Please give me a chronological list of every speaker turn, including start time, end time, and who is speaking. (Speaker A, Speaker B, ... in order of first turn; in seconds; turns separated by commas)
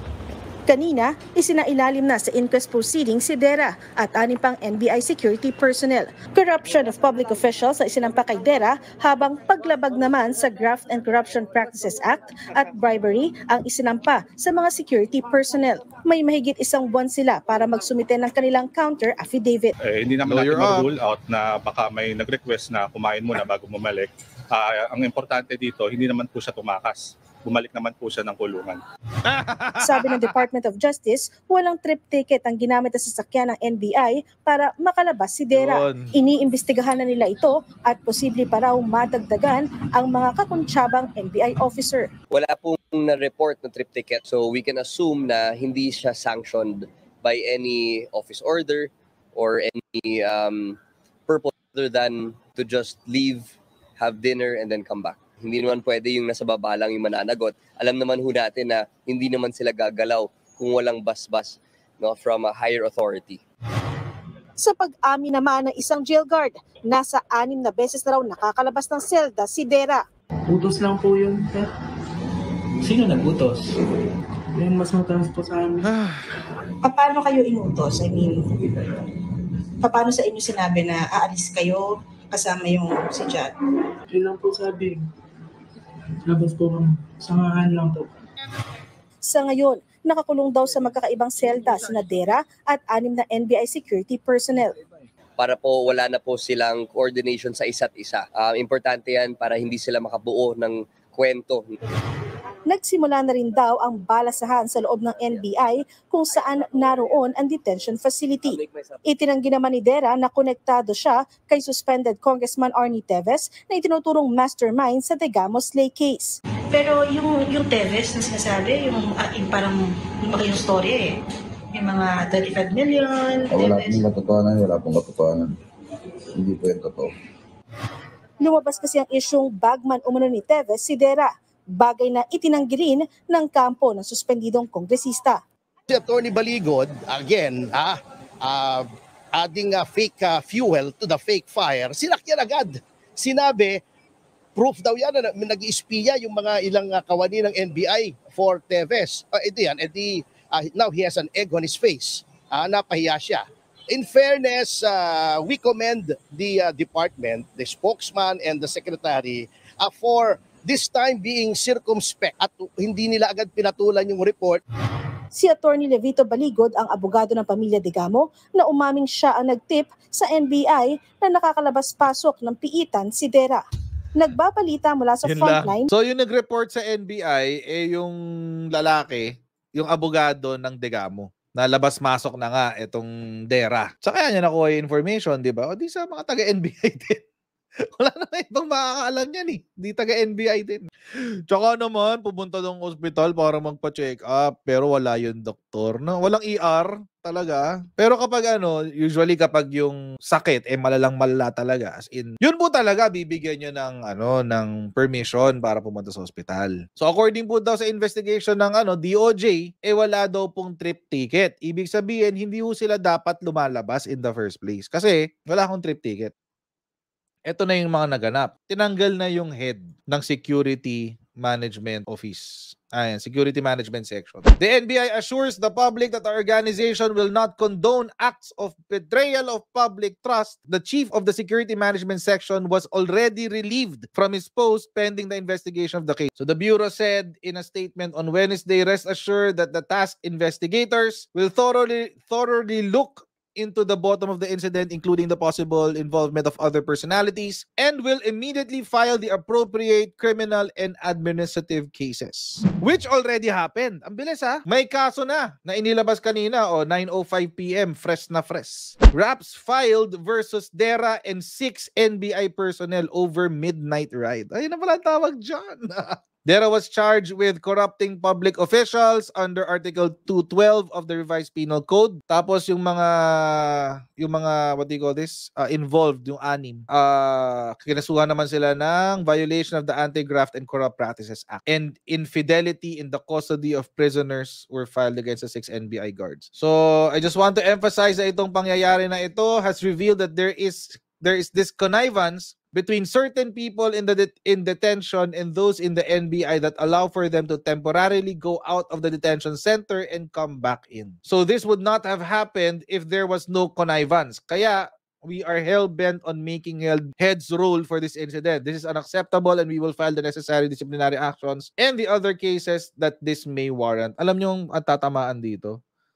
Speaker A: 0.7-19.8, Speaker B: 19.8-28.8, Speaker C: 20.2-20.9, Speaker C: 29.2-30.4, Speaker A: 29.8-42.1, Speaker C: 35.5-36.1, Speaker D: 42.3-63.4, Speaker A: 64.6-70.0, Speaker E: 70.5-71.7, Speaker E: 72.8-73.8, Speaker E: 74.5-75.9, Speaker C: 75.8-76.2, Speaker A: 76.8-79.1, Speaker A: 79.8-83.5, Speaker E: 84.1-85.1, Speaker E: 86.3-88.1, Speaker A: 89.3-94.8, Speaker D: 95.4-101.7, Speaker A: 102.7-117.1, Speaker F: 116.9-119.7, Speaker A: 117.9-119.5, Speaker A: 120.3-120.9, Speaker F: 120.4-120.9, Speaker A: 121.8-123.3, Speaker F: 121.8-122.6, Speaker F: 123.3-123.9, Speaker G: 123.5-125.5, Speaker G: 126.3-127.1, Speaker A: 128.4-135.4, Speaker H: 135.9-143.8, Speaker H: 144.6-164.6, Speaker A: 165.3-173.6, Speaker A: 174.2-175.9, Speaker C: 175.2-178.2, Speaker C: 178.7-187.2, Speaker C: 188.0-190.8, Speaker C: 191.5-216.3, Speaker C: 217.5-315.8